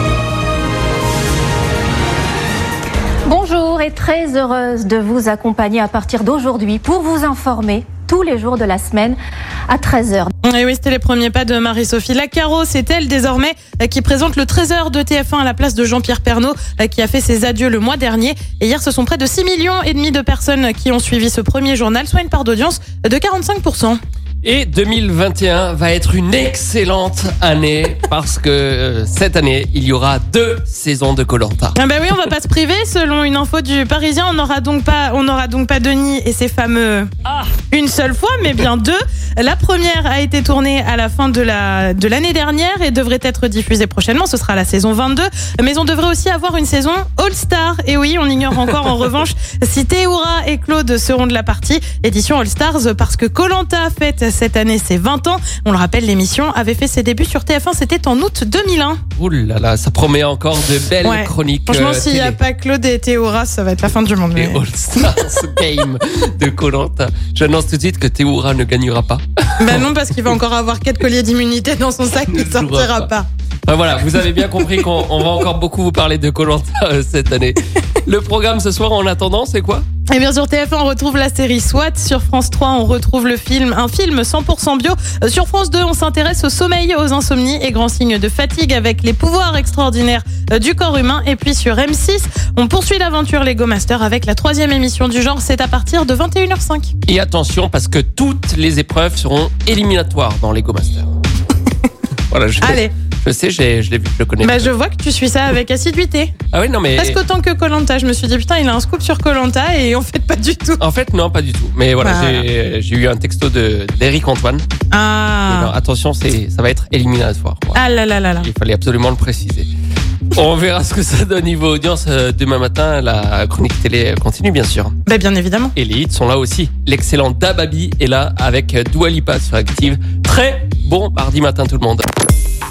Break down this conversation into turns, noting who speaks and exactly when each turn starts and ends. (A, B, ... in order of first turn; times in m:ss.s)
0:03.3-0:09.2 A
0:09.7-0:10.3 A
0:10.4-0:24.0 B
0:24.4-0:31.8 C
0:31.8-0:37.1 B
0:37.3-0:37.5 C
0:37.7-0:59.0 B
0:59.2-1:02.4 C
1:01.0-1:05.1 B
1:04.3-1:09.9 C
1:09.6-1:13.3 B
1:12.3-1:13.1 C
1:13.7-1:19.8 C
1:20.1-1:36.9 B
1:37.0-1:41.1 C
1:42.3-1:44.7 C
1:42.6-1:42.9 B
1:44.4-1:46.3 B
1:46.5-1:47.2 C
1:47.0-1:50.8 B
1:50.8-1:54.7 C
1:52.0-1:52.5 B
1:54.9-1:55.7 B
1:55.5-1:57.8 C
1:57.7-1:58.5 B
1:58.4-1:59.7 C
2:00.3-2:05.0 C
2:05.1-2:05.7 B
2:05.8-2:12.0 C